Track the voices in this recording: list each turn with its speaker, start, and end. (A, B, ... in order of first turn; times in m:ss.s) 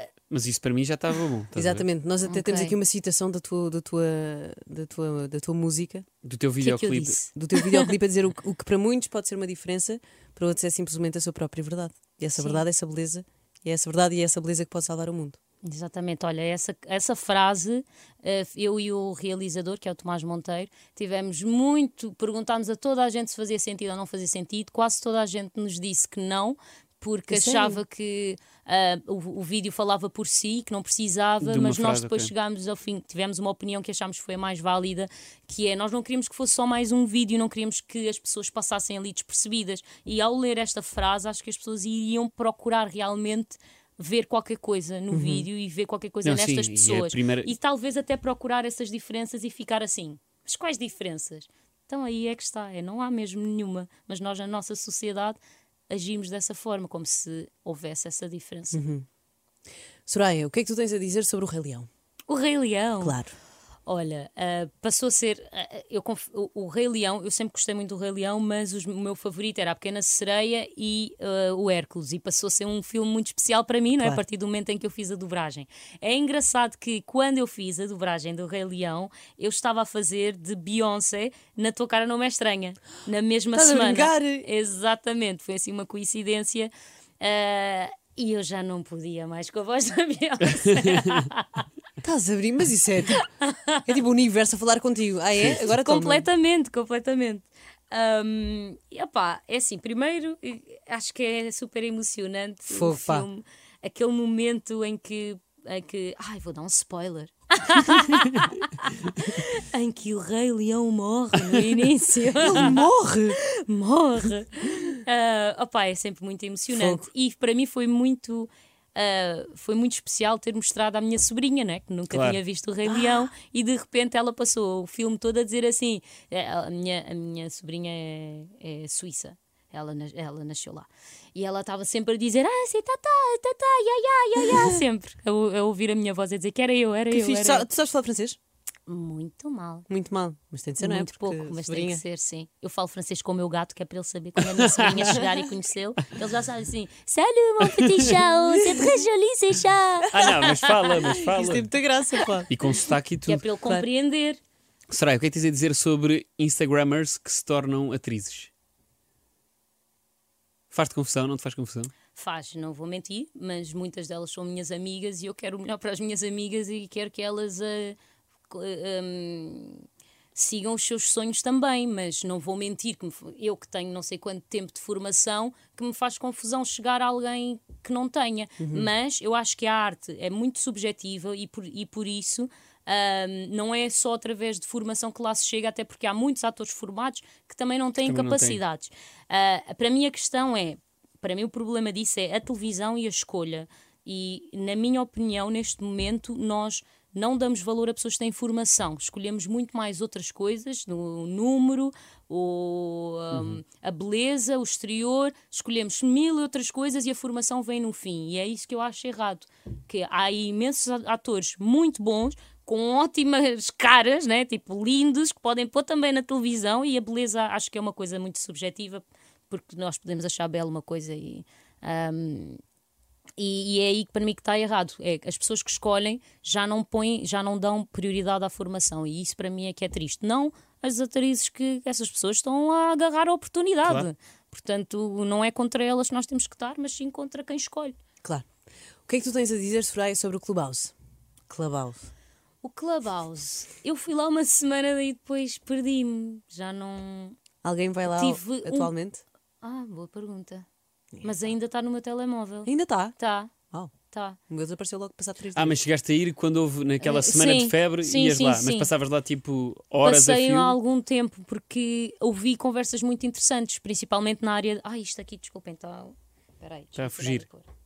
0:00.3-0:01.8 A
0:01.6-0:06.1 B
0:02.3-0:02.8 C
0:06.2-0:07.2 A
0:06.6-0:07.9 C
0:07.4-0:15.4 B
0:12.4-0:12.6 C
0:15.6-0:58.8 C
0:27.3-0:27.8 B
0:31.4-0:32.3 A
0:45.1-0:45.5 B
0:46.2-0:47.5 A
0:58.7-0:59.1 B
1:00.1-1:01.9 B
1:02.3-1:03.2 C
1:03.0-1:03.4 B
1:03.9-1:31.7 C
1:23.5-1:24.5 B
1:30.7-1:31.3 A
1:32.0-1:33.2 B
1:33.1-1:33.9 C
1:33.9-1:36.3 B
1:35.6-2:17.7 C
1:42.7-1:43.3 B
1:52.4-1:53.4 B
1:56.7-1:57.0 B
2:02.1-2:02.4 A
2:02.9-2:03.2 B
2:14.4-2:14.8 B
2:17.1-2:18.4 B
2:18.9-2:19.9 C
2:19.9-2:22.0 B
2:20.8-2:31.1 C
2:24.6-2:25.2 A
2:27.6-2:28.2 A
2:28.5-2:29.0 B
2:30.1-2:31.7 A
2:31.0-2:32.5 B
2:32.5-2:33.5 A
2:33.3-2:34.4 C
2:34.9-2:38.5 A
2:40.7-2:41.9 A
2:42.2-2:48.0 C
2:48.5-3:42.6 C
2:58.6-2:58.9 B
3:08.0-3:08.6 A
3:43.4-3:58.0 C
3:59.1-4:00.9 B
4:01.5-4:02.1 B
4:02.6-4:07.4 C
4:07.6-4:09.2 B
4:08.1-4:08.9 C
4:09.6-4:10.7 C
4:11.1-4:11.5 B
4:11.2-4:13.5 C
4:12.6-4:13.2 B
4:14.1-4:14.4 C
4:14.5-4:15.8 B
4:15.5-4:20.8 A
4:17.0-4:18.9 C
4:20.0-4:27.7 C
4:27.0-4:27.5 A